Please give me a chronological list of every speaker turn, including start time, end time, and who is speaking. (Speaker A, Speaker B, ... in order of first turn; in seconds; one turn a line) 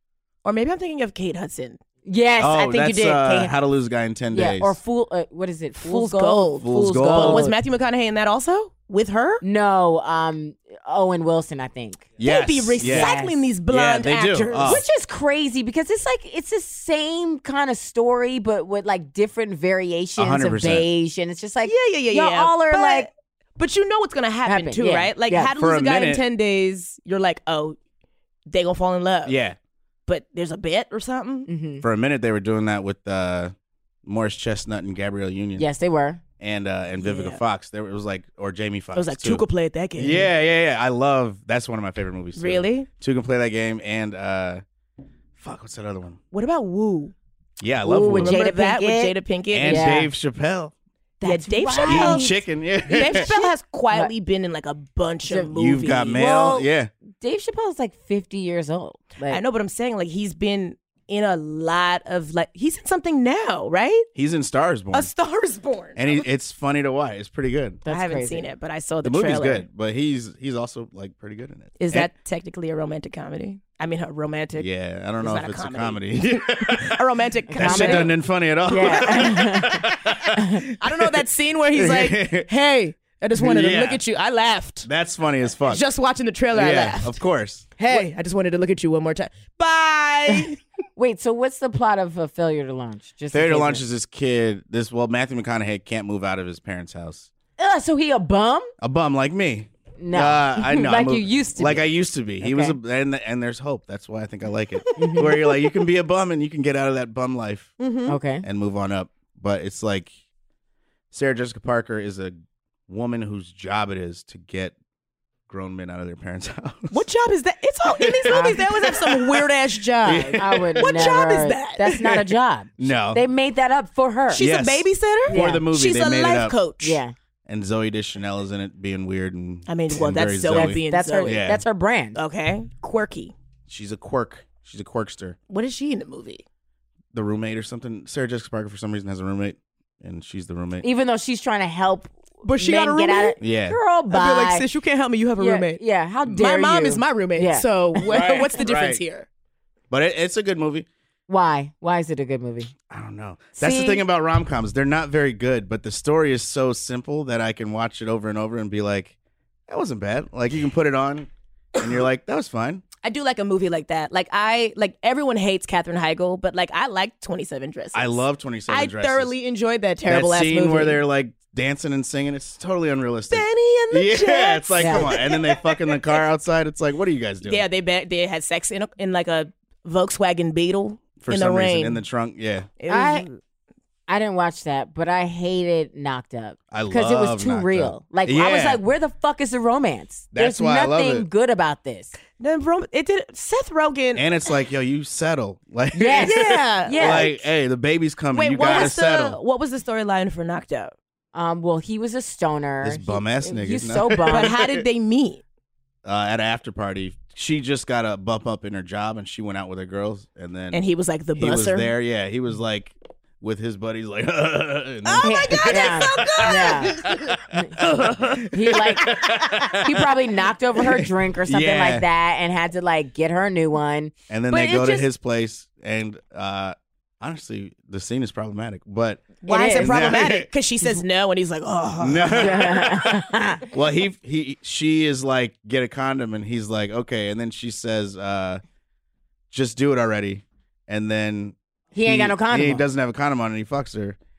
Speaker A: 0.4-1.8
Speaker B: 2.0-3.5
Speaker C: 2.4-4.8
Speaker B: 4.3-7.5
Speaker A: 5.8-9.4
Speaker C: 6.6-7.5
Speaker B: 9.4-12.1
Speaker C: 12.2-13.2
Speaker A: 12.2-14.8
Speaker B: 12.8-13.4
Speaker C: 13.7-14.8
Speaker B: 14.6-23.1
Speaker C: 20.2-20.9
Speaker A: 21.6-27.8
Speaker B: 24.5-25.5
Speaker C: 25.6-26.2
Speaker A: 28.5-29.4
Speaker C: 29.3-29.6
Speaker A: 30.1-31.5
Speaker B: 31.5-31.8
Speaker C: 31.8-33.5
Speaker C: 34.0-35.7
Speaker B: 35.6-36.2
Speaker C: 36.4-39.5
Speaker A: 37.0-37.4
Speaker A: 38.9-40.3
Speaker C: 40.0-44.6
Speaker A: 42.4-42.9
Speaker C: 45.4-46.2
Speaker A: 46.3-47.1
Speaker C: 47.6-48.4
Speaker B: 47.9-50.1
Speaker A: 48.1-50.0
Speaker C: 49.5-50.7
Speaker A: 51.2-52.4
Speaker B: 51.2-52.3
Speaker C: 51.8-53.3
Speaker A: 52.9-56.2
Speaker B: 53.0-54.1
Speaker B: 55.3-55.5
Speaker C: 55.5-56.9
Speaker B: 56.1-56.7
Speaker B: 57.2-59.4
Speaker A: 59.3-64.1
Speaker C: 64.2-65.1
Speaker A: 64.9-66.2
Speaker C: 66.0-67.8
Speaker B: 67.8-68.5
Speaker A: 67.9-69.7
Speaker C: 69.0-72.1
Speaker A: 71.8-74.7
Speaker C: 74.6-77.0
Speaker A: 75.2-78.1
Speaker B: 77.5-78.1
Speaker C: 77.6-81.2
Speaker B: 78.7-79.8
Speaker A: 78.8-79.8
Speaker B: 80.4-80.6
Speaker A: 80.7-84.9
Speaker C: 81.8-82.5
Speaker C: 83.3-84.0
Speaker C: 84.8-85.8
Speaker A: 85.6-87.2
Speaker C: 86.5-88.0
Speaker A: 87.8-90.6
Speaker B: 91.0-93.8
Speaker C: 93.3-97.3
Speaker B: 97.6-98.7
Speaker C: 98.8-107.8
Speaker B: 100.0-101.9
Speaker B: 102.4-102.8
Speaker A: 104.9-105.8
Speaker B: 105.0-105.4
Speaker A: 107.8-108.2
Speaker B: 108.1-108.5
Speaker C: 108.4-110.1
Speaker C: 111.1-112.4
Speaker C: 112.9-114.8
Speaker C: 115.5-117.0
Speaker A: 116.9-122.3
Speaker C: 117.9-119.5
Speaker B: 118.3-118.7
Speaker C: 120.0-121.1
Speaker B: 120.3-124.5
Speaker C: 122.8-123.2
Speaker A: 124.3-127.0
Speaker C: 124.4-126.6
Speaker B: 125.3-125.7
Speaker B: 126.8-127.1
Speaker C: 127.5-131.6
Speaker A: 129.7-131.4
Speaker B: 130.5-132.2
Speaker A: 132.2-133.3
Speaker C: 133.7-135.4
Speaker A: 135.5-136.4
Speaker C: 137.1-140.9
Speaker B: 140.8-144.7
Speaker A: 142.4-143.4
Speaker C: 143.4-143.8
Speaker A: 144.1-149.3
Speaker B: 145.4-148.5
Speaker C: 148.1-149.0
Speaker C: 149.9-150.9
Speaker B: 151.3-152.7
Speaker C: 152.9-159.2
Speaker A: 153.6-153.9
Speaker B: 153.6-153.9
Speaker C: 159.7-162.8
Speaker A: 163.0-171.0
Speaker C: 167.9-169.3
Speaker C: 170.1-177.7
Speaker A: 173.3-176.2
Speaker B: 174.8-175.1
Speaker A: 177.4-182.0
Speaker C: 181.2-182.7
Speaker A: 182.8-183.4
Speaker B: 182.9-183.3
Speaker B: 184.1-192.2
Speaker C: 186.7-188.8
Speaker C: 190.3-191.3
Speaker A: 192.4-194.3
Speaker C: 194.2-199.4
Speaker B: 195.9-197.4
Speaker A: 196.2-197.4
Speaker A: 198.3-200.9
Speaker B: 201.3-204.6
Speaker C: 202.8-204.8
Speaker A: 204.3-205.4
Speaker C: 206.1-210.8
Speaker A: 210.7-211.9
Speaker C: 211.4-220.1
Speaker A: 215.1-217.4
Speaker B: 215.2-216.9
Speaker B: 218.5-219.1
Speaker A: 219.1-219.8
Speaker B: 219.8-225.1
Speaker C: 221.0-222.1
Speaker C: 224.3-230.5
Speaker A: 229.4-232.7
Speaker B: 229.5-230.0
Speaker C: 232.0-233.1
Speaker B: 232.3-233.7
Speaker C: 233.7-238.6
Speaker C: 239.5-244.2
Speaker B: 241.9-242.8